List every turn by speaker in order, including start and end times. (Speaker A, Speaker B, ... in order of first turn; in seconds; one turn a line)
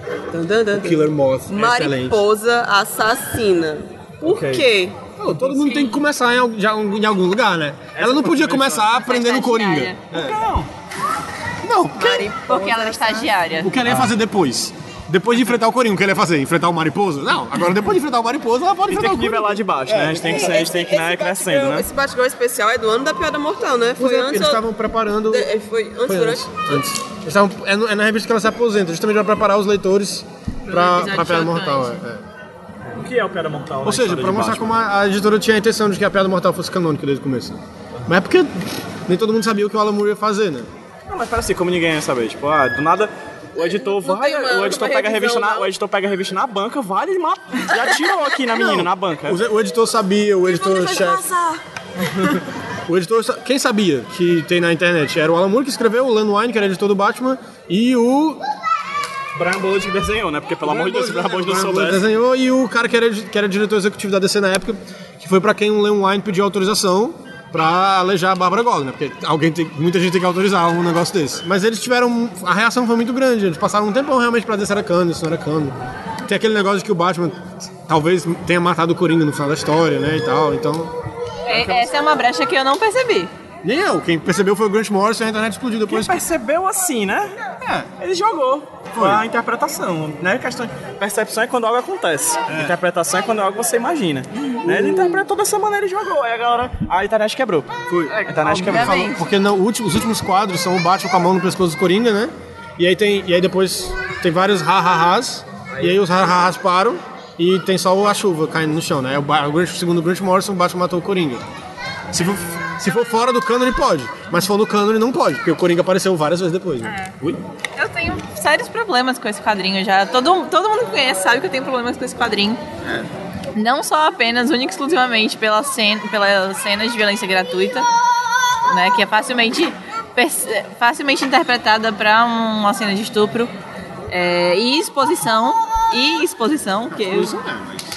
Speaker A: 0.3-5.0
Speaker B: 0.8-2.2
Speaker C: 4.2-4.7
Speaker B: 5.2-10.4
Speaker C: 5.3-5.9
Speaker C: 7.9-8.9
Speaker D: 8.9-10.0
Speaker C: 10.1-10.7
Speaker B: 11.6-12.3
Speaker A: 12.0-13.3
Speaker D: 12.3-13.7
Speaker B: 13.6-20.6
Speaker C: 13.8-14.1
Speaker C: 18.9-21.9
Speaker A: 20.2-24.6
Speaker B: 24.0-25.5
Speaker A: 25.3-26.6
Speaker B: 26.1-32.2
Speaker D: 30.6-32.0
Speaker C: 32.9-34.7
Speaker B: 33.8-40.7
Speaker C: 41.1-49.4
Speaker A: 43.6-45.7
Speaker B: 48.5-51.3
Speaker A: 50.4-51.6
Speaker B: 52.9-58.4
Speaker C: 59.3-62.0
Speaker B: 60.6-80.9
Speaker D: 81.5-83.3
Speaker C: 81.5-82.1
Speaker B: 83.6-86.2
Speaker C: 85.9-87.3
Speaker B: 87.6-87.9
Speaker C: 88.0-99.0
Speaker B: 88.9-89.2
Speaker B: 92.5-92.8
Speaker B: 94.7-95.1
Speaker B: 97.9-111.4
Speaker D: 98.1-99.2
Speaker B: 112.1-117.4
Speaker D: 116.8-117.1
Speaker D: 117.8-122.6
Speaker D: 123.5-127.9
Speaker D: 128.7-133.5
Speaker D: 134.1-137.3
Speaker B: 136.9-137.8